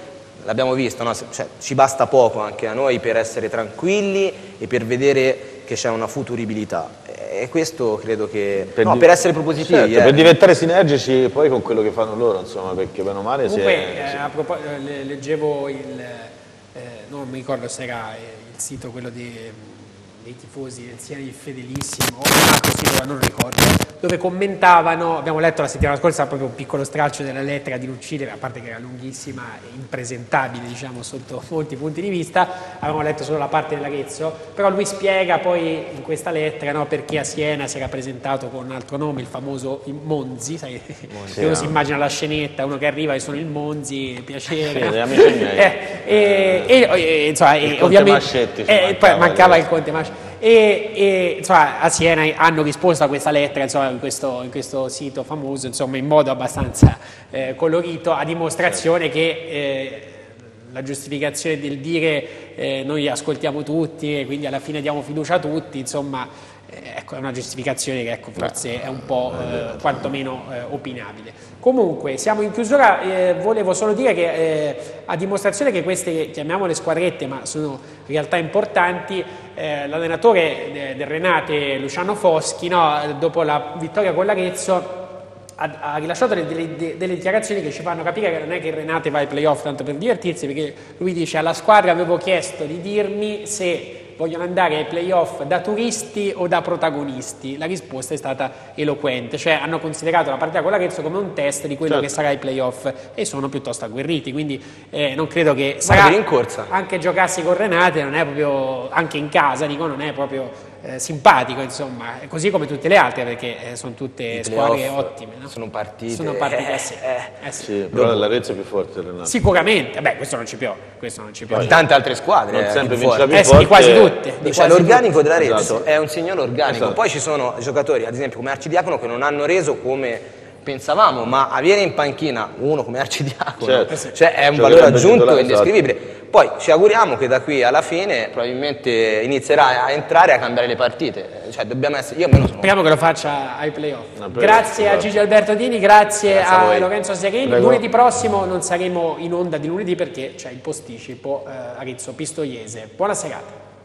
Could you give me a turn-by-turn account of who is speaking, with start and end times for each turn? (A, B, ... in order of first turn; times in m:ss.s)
0:00.4-0:10.3 A
0:08.7-0:14.3 B
0:13.4-1:55.5 C
0:41.1-0:41.5 A
0:41.3-0:41.8 B
0:44.7-0:46.8 B
0:47.6-0:49.7 B
1:08.4-1:10.1 B
1:45.9-1:46.7 A
1:54.3-1:58.3 A
1:56.1-1:57.7 C
1:57.6-1:59.4 B
1:59.2-2:01.8 C
2:01.5-2:01.8 B
2:01.5-2:03.6 A
2:02.5-2:04.2 B
2:03.3-2:05.1 C
2:04.4-2:22.7 A
2:05.4-2:05.9 B
2:06.7-2:07.0 B
2:13.6-2:14.0 B
2:14.5-2:15.7 B
2:22.6-2:33.6 C
2:24.2-2:25.1 B
2:26.3-2:26.9 A
2:27.4-2:27.8 B